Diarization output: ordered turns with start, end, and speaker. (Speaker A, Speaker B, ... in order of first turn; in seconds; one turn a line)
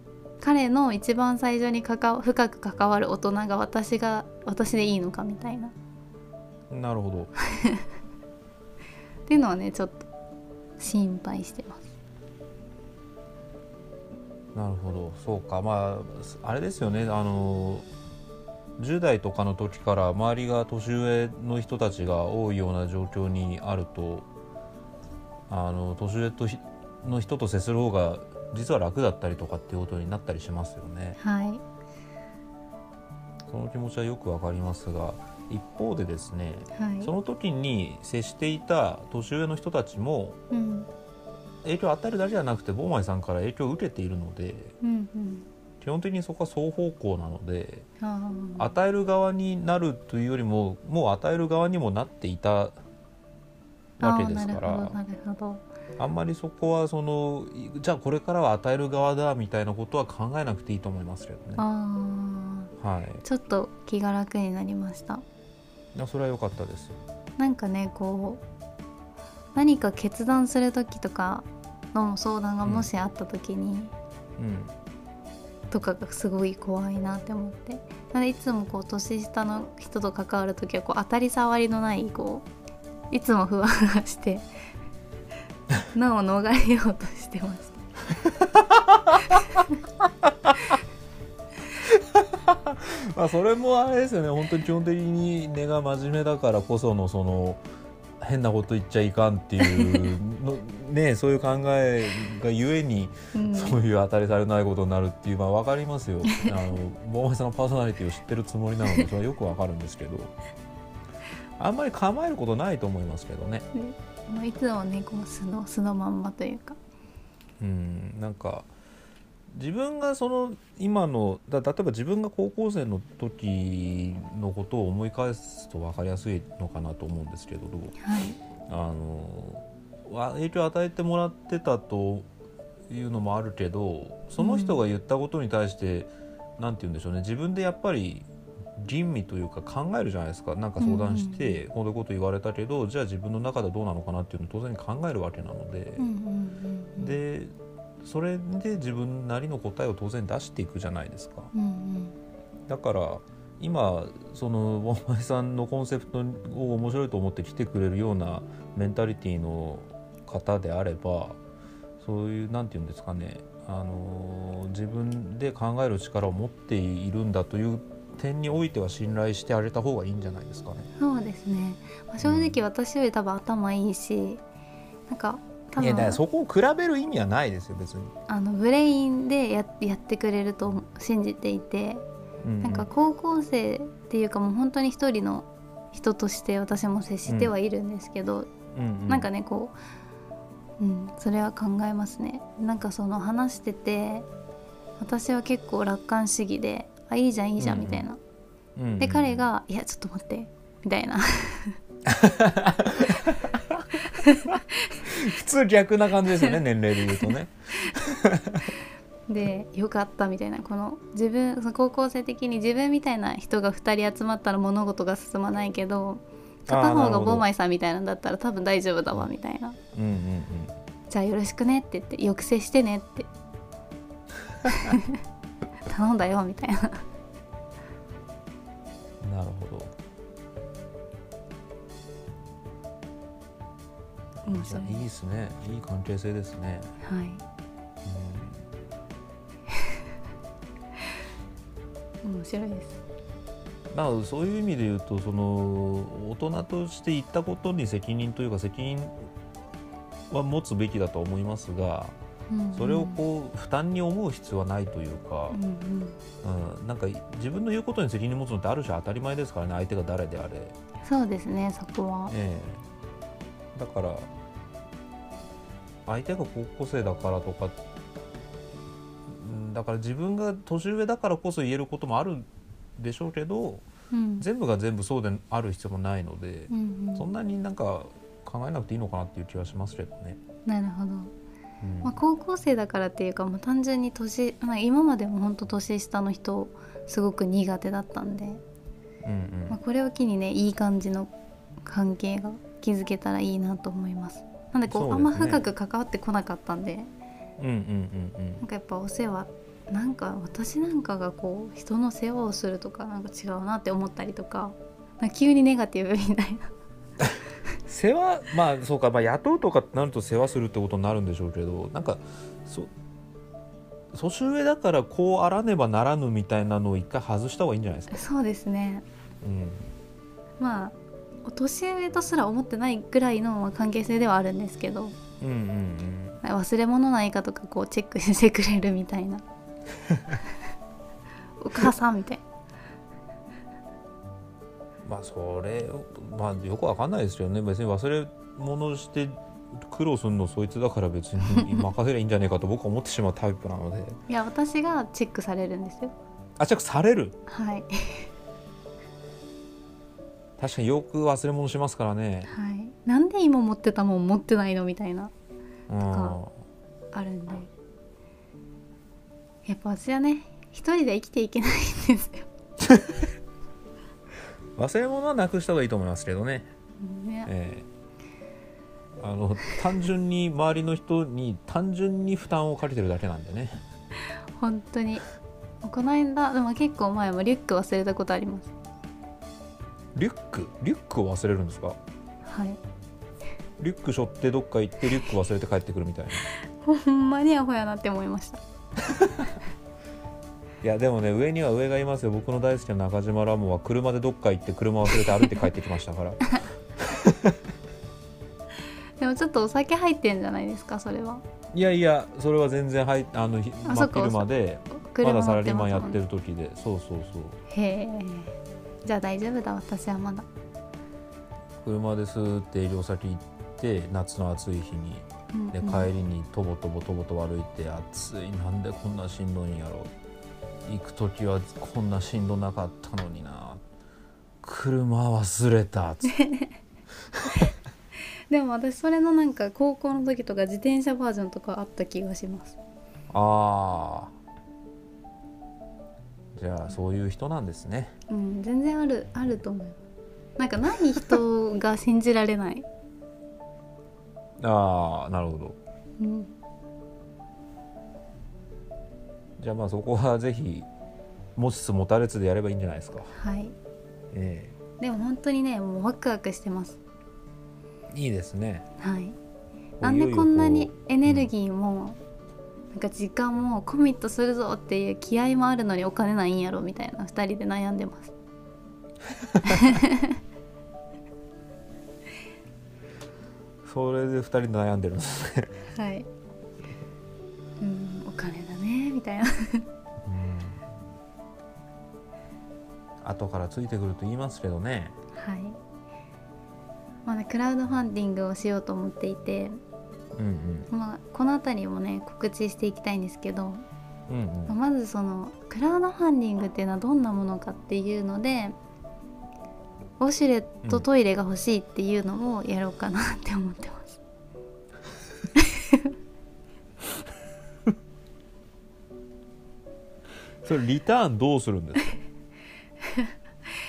Speaker A: 0.4-5.7
Speaker B: 6.7-7.3
Speaker A: 7.4-7.8
Speaker A: 9.3-10.1
Speaker A: 10.8-11.9
Speaker B: 14.5-17.9
Speaker B: 18.8-24.2
Speaker B: 25.5-31.2
Speaker A: 31.2-31.6
Speaker B: 33.5-40.4
Speaker A: 36.7-37.1
Speaker A: 40.5-40.9
Speaker B: 41.6-44.7
Speaker A: 44.8-45.5
Speaker B: 45.8-47.9
Speaker A: 48.0-48.7
Speaker B: 48.6-52.8
Speaker B: 54.0-55.0
Speaker A: 54.0-55.6
Speaker B: 56.0-61.6
Speaker A: 61.6-62.7
Speaker B: 62.8-63.2
Speaker A: 63.2-65.2
Speaker B: 65.9-67.0
Speaker A: 67.4-68.4
Speaker A: 69.5-73.9
Speaker B: 74.4-74.7
Speaker A: 75.7-82.5
Speaker A: 83.1-84.5
Speaker A: 85.9-87.8
Speaker B: 88.4-89.2
Speaker A: 89.3-89.7
Speaker B: 90.2-90.5
Speaker B: 91.8-97.6
Speaker B: 98.2-110.3
Speaker A: 99.6-100.1
Speaker A: 103.3-103.8
Speaker A: 106.2-106.5
Speaker B: 111.6-113.7
Speaker A: 113.7-116.8
Speaker B: 117.6-118.7
Speaker B: 119.5-128.0
Speaker A: 128.0-128.4
Speaker B: 128.7-132.3
Speaker B: 132.9-138.3
Speaker A: 134.4-134.8
Speaker B: 138.8-146.0
Speaker A: 140.8-141.6
Speaker A: 146.0-147.2
Speaker B: 147.0-147.5
Speaker B: 148.0-151.5
Speaker A: 151.5-152.1
Speaker B: 152.7-161.4
Speaker B: 162.0-170.9
Speaker A: 171.0-174.4
Speaker B: 172.2-172.6
Speaker A: 175.1-176.2
Speaker B: 175.8-178.1
Speaker A: 178.3-182.0
Speaker B: 182.4-182.9
Speaker A: 182.6-188.5
Speaker B: 187.3-187.5
Speaker B: 188.7-189.3
Speaker A: 189.1-189.7
Speaker A: 190.8-194.3
Speaker A: 195.0-198.2
Speaker B: 197.6-198.0
Speaker B: 198.8-199.4
Speaker A: 199.0-201.8
Speaker B: 202.0-208.7
Speaker A: 204.1-204.9
Speaker A: 209.3-219.8
Speaker B: 216.7-217.5
Speaker B: 219.9-220.7
Speaker A: 221.1-223.3
Speaker A: 224.7-225.2
Speaker A: 225.8-227.0
Speaker B: 229.2-229.9
Speaker B: 234.4-236.9
Speaker A: 234.5-235.0
Speaker A: 237.0-237.4
Speaker B: 238.0-238.6
Speaker A: 242.2-243.0
Speaker B: 243.9-249.3
Speaker B: 250.3-252.1
Speaker A: 252.5-253.2
Speaker B: 252.7-255.6
Speaker A: 255.5-256.2
Speaker B: 256.4-260.8
Speaker A: 261.0-262.3
Speaker B: 262.3-262.8
Speaker B: 263.7-264.3
Speaker B: 266.1-267.8
Speaker B: 269.3-273.8
Speaker A: 274.1-274.4
Speaker B: 274.4-280.4
Speaker A: 276.7-277.3
Speaker A: 280.6-281.3
Speaker B: 281.8-282.1
Speaker A: 282.0-288.6
Speaker B: 289.2-289.8
Speaker A: 289.7-291.3
Speaker A: 291.8-297.1
Speaker B: 294.9-295.6
Speaker B: 297.6-298.6
Speaker A: 298.6-306.7
Speaker B: 307.2-312.9
Speaker B: 314.1-318.2
Speaker A: 318.1-319.0
Speaker B: 319.4-319.9
Speaker A: 320.6-325.1
Speaker B: 325.4-326.4
Speaker A: 326.4-329.4
Speaker B: 330.1-330.4
Speaker A: 331.6-332.4
Speaker B: 335.0-344.2
Speaker A: 341.5-341.8
Speaker A: 344.3-346.1
Speaker B: 346.6-347.4
Speaker A: 347.5-348.3
Speaker B: 350.6-352.5
Speaker A: 352.5-355.3
Speaker B: 355.9-356.5
Speaker A: 356.0-356.4
Speaker A: 357.1-357.7
Speaker A: 359.6-362.5
Speaker B: 364.8-366.7
Speaker A: 367.0-367.5
Speaker B: 367.5-367.9
Speaker B: 369.2-373.8
Speaker A: 374.6-375.2
Speaker A: 375.8-378.7
Speaker B: 380.1-382.0
Speaker A: 382.4-382.8
Speaker B: 383.8-386.5
Speaker A: 386.6-388.6
Speaker B: 389.0-389.5
Speaker B: 390.8-396.4
Speaker B: 397.0-397.6
Speaker A: 399.2-401.4
Speaker B: 401.7-407.6
Speaker A: 403.8-406.2
Speaker A: 407.7-410.5
Speaker B: 411.8-420.1
Speaker A: 415.5-416.1
Speaker B: 420.9-423.8
Speaker B: 424.6-426.4
Speaker A: 426.3-426.7
Speaker B: 427.3-427.6
Speaker A: 428.5-432.8
Speaker B: 433.3-434.3
Speaker B: 436.5-438.1
Speaker A: 438.3-440.0
Speaker A: 440.6-442.9
Speaker B: 444.6-445.8
Speaker A: 446.2-446.5
Speaker B: 449.6-450.9
Speaker B: 451.6-453.3
Speaker A: 453.3-453.7
Speaker B: 454.3-454.8
Speaker A: 455.0-457.0
Speaker B: 458.1-458.9
Speaker A: 459.0-459.4
Speaker B: 460.0-461.5
Speaker A: 460.0-462.2
Speaker A: 462.9-468.3
Speaker B: 469.4-469.9
Speaker A: 469.6-470.4
Speaker B: 473.8-475.7
Speaker A: 475.9-476.3
Speaker A: 477.8-479.9
Speaker B: 480.2-480.9
Speaker B: 483.2-485.1
Speaker A: 485.3-485.8
Speaker A: 487.2-489.8
Speaker B: 490.4-490.9
Speaker A: 490.9-493.8
Speaker B: 494.3-494.7
Speaker A: 494.7-498.8
Speaker A: 500.2-504.2
Speaker A: 505.5-506.1
Speaker B: 510.6-512.2
Speaker A: 513.0-513.3